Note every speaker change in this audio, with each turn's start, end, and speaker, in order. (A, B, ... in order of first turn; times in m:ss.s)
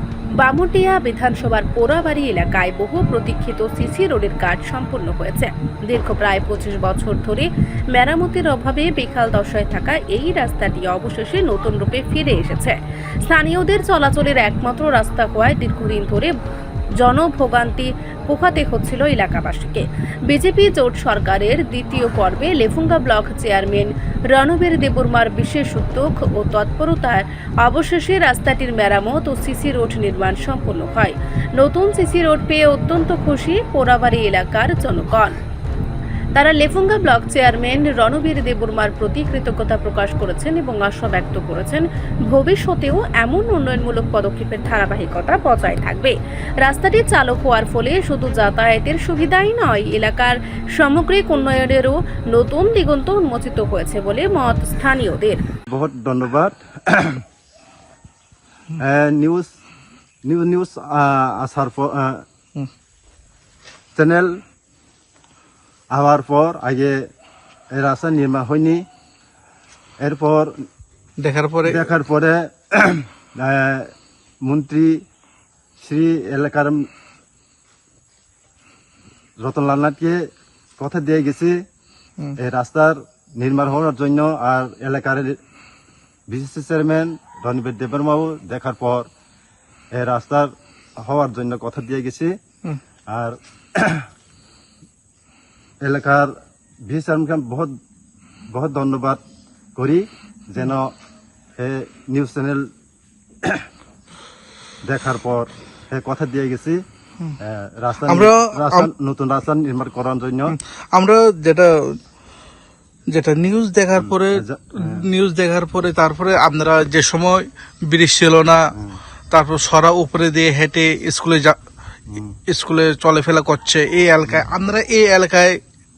0:00.4-0:16.3 A
0:17.0-0:35.4 A
0:36.4-0:55.4 A
0:55.7-0:57.2 B
0:58.8-0:59.5 B
1:00.2-1:02.2 B
1:04.0-1:04.4 B
1:05.9-1:07.1 B
1:07.7-1:08.9 B
1:10.0-1:10.6 B
1:11.2-1:11.9 C
1:11.6-1:13.9 B
1:14.4-1:15.0 B
1:15.8-1:16.9 B
1:19.4-1:21.6 B
1:22.4-1:25.4 B
1:26.3-1:29.1 B
1:29.9-1:32.4 B
1:33.1-1:34.1 B
1:35.8-1:36.3 B
1:36.8-1:37.7 B
1:38.5-1:39.2 B
1:39.8-1:40.9 B
1:41.6-1:42.7 B
1:44.8-1:46.8 B
1:47.4-1:50.6 B
1:48.1-1:48.9 C
1:50.5-1:52.0 C
1:53.1-1:58.7 C
1:53.9-1:55.1 B
1:58.7-1:59.0 B
1:59.3-2:01.6 C
2:02.1-2:02.4 B
2:02.5-2:05.6 C